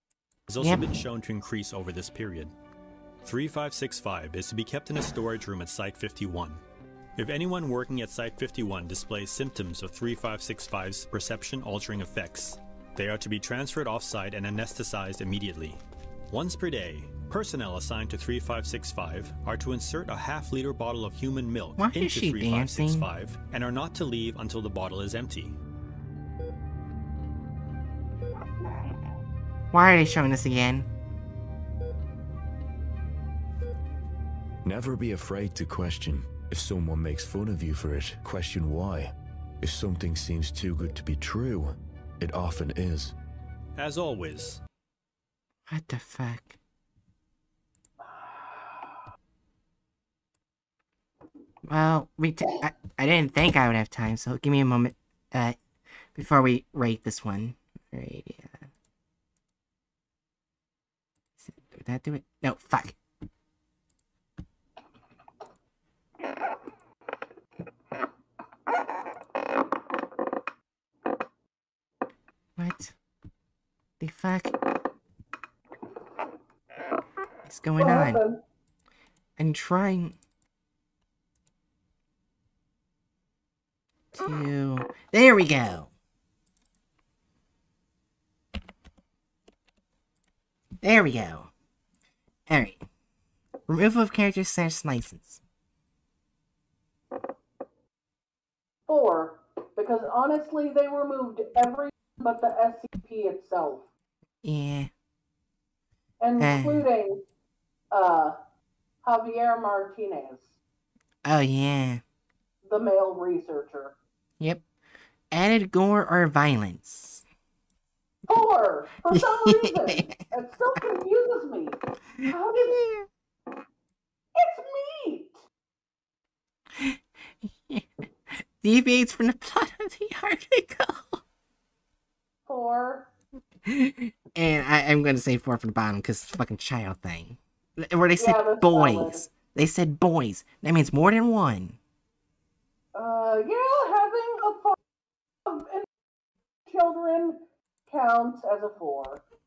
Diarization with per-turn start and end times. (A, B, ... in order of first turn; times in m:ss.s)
0:00.5-0:02.5 A
0:00.6-0:00.8 B
0:03.2-0:06.6 A
0:07.2-0:25.6 A
0:21.8-0:23.1 B
0:29.7-0:30.9 B
0:34.6-0:43.2 C
0:43.8-0:44.6 A
0:45.7-0:46.6 B
0:51.7-0:55.6 B
0:56.1-0:58.6 B
1:01.4-1:03.0 B
1:12.6-1:13.0 B
1:14.0-1:14.6 B
1:17.5-1:18.2 B
1:17.8-1:18.4 D
1:19.4-1:20.2 B
1:24.1-1:25.9 B
1:30.8-1:31.5 B
1:32.5-1:32.9 B
1:33.7-1:35.4 B
1:38.9-1:43.9 D
1:44.4-1:44.9 B
1:46.2-1:47.2 D
1:46.4-1:46.9 B
1:47.9-1:48.4 D
1:49.0-1:50.6 D
1:51.2-1:52.0 B
1:52.6-1:54.0 D
1:55.3-1:57.2 B
1:58.3-2:02.8 D
1:59.1-2:00.2 B
2:02.2-2:03.1 B
2:04.4-2:05.4 D
2:06.8-2:11.2 B
2:12.5-2:13.1 D
2:13.6-2:21.8 B
2:18.2-2:19.3 D
2:23.0-2:24.8 D
2:25.5-2:25.9 D
2:26.7-2:29.2 D